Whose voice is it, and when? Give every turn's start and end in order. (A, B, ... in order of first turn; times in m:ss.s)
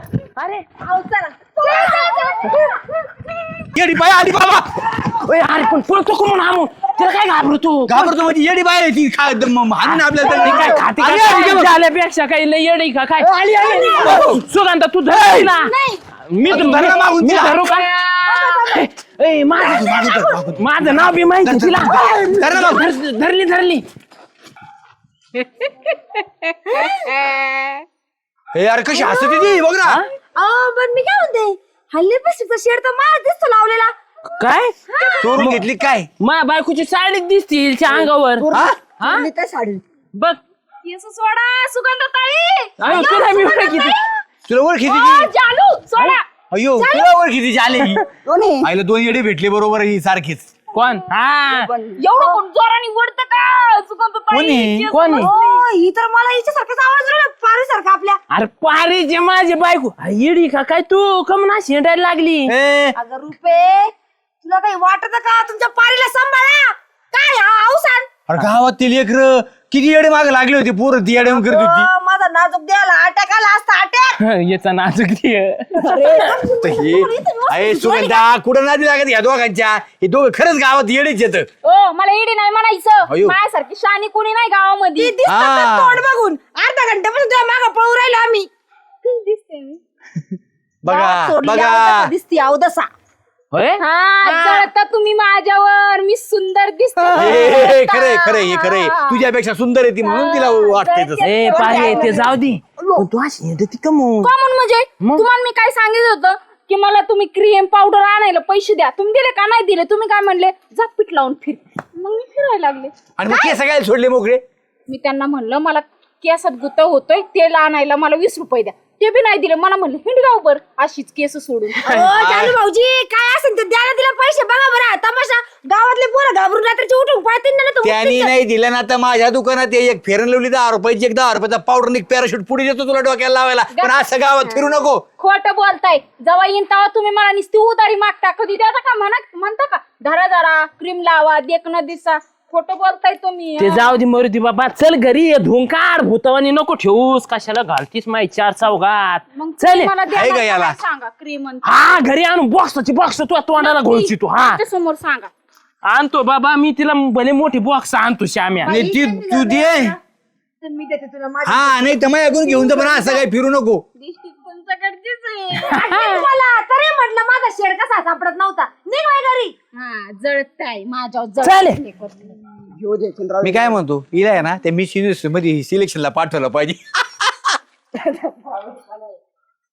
0:00.4-0:00.6 A
0:00.8-0:02.7 B
0:03.7-0:04.7 C
0:05.0-0:08.1 A
0:07.9-0:11.7 C
0:09.8-0:15.7 A
0:10.5-0:10.8 B
0:13.6-0:14.0 B
0:14.0-0:14.4 C
0:15.6-0:16.0 D
0:16.3-0:23.8 A
0:16.5-0:17.6 C
0:18.2-0:18.8 B
0:19.6-0:22.8 C
0:19.8-0:20.4 B
0:26.7-0:27.5 B
0:28.5-0:30.0 C
0:28.9-0:29.6 B
0:30.4-0:33.9 B
0:34.4-0:34.8 A
0:34.9-0:35.4 B
0:35.2-0:36.1 C
0:35.4-0:35.6 A
0:36.2-0:38.4 A
0:37.9-0:39.8 E
0:39.0-0:39.3 A
0:40.8-0:43.4 D
0:42.8-0:44.0 A
0:42.8-0:44.0 B
0:44.5-0:45.3 C
0:44.9-0:46.2 D
0:46.5-0:48.0 C
0:46.8-0:47.1 B
0:48.2-0:48.7 E
0:48.6-0:50.5 C
0:50.7-0:51.7 A
0:51.4-0:52.0 E
0:52.0-0:55.7 D
0:54.3-0:54.8 C
0:54.9-0:55.3 A
0:55.1-0:58.2 B
0:58.3-1:02.5 A
1:02.5-1:03.0 C
1:02.9-1:08.1 B
1:08.3-1:11.9 C
1:11.2-1:14.2 B
1:14.2-1:16.4 A
1:15.8-1:18.2 B
1:16.6-1:21.5 C
1:21.6-1:25.1 D
1:23.1-1:23.4 C
1:25.0-1:28.5 B
1:25.2-1:26.0 C
1:29.1-1:29.7 D
1:30.8-1:32.1 C
1:30.9-1:32.9 B
1:33.5-1:33.8 A
1:33.8-1:39.0 D
1:34.2-1:34.7 B
1:37.1-1:41.4 C
1:40.0-1:42.3 B
1:41.2-1:44.3 A
1:41.5-1:42.2 D
1:44.2-1:52.9 D
1:45.0-1:45.3 A
1:53.2-1:54.4 C
1:53.3-1:53.5 B
1:54.9-2:01.8 D
2:01.8-2:08.4 B
2:02.0-2:02.6 C
2:07.8-2:15.0 C
2:13.7-2:14.1 D
2:15.2-2:23.9 D
2:23.6-2:30.0 A
2:29.3-2:32.0 D
2:30.1-2:30.8 C
2:31.6-2:34.6 A
2:33.6-2:35.3 D
2:35.8-2:38.8 A
2:38.6-2:40.0 B
2:38.7-2:40.0 C
2:40.6-2:43.2 B
2:41.4-2:43.8 C
2:44.0-2:45.7 D
2:45.5-2:49.5 B
2:45.6-2:46.2 A
2:49.7-2:52.3 D
2:51.4-2:51.8 A
2:52.7-2:53.8 E
2:53.4-2:57.6 C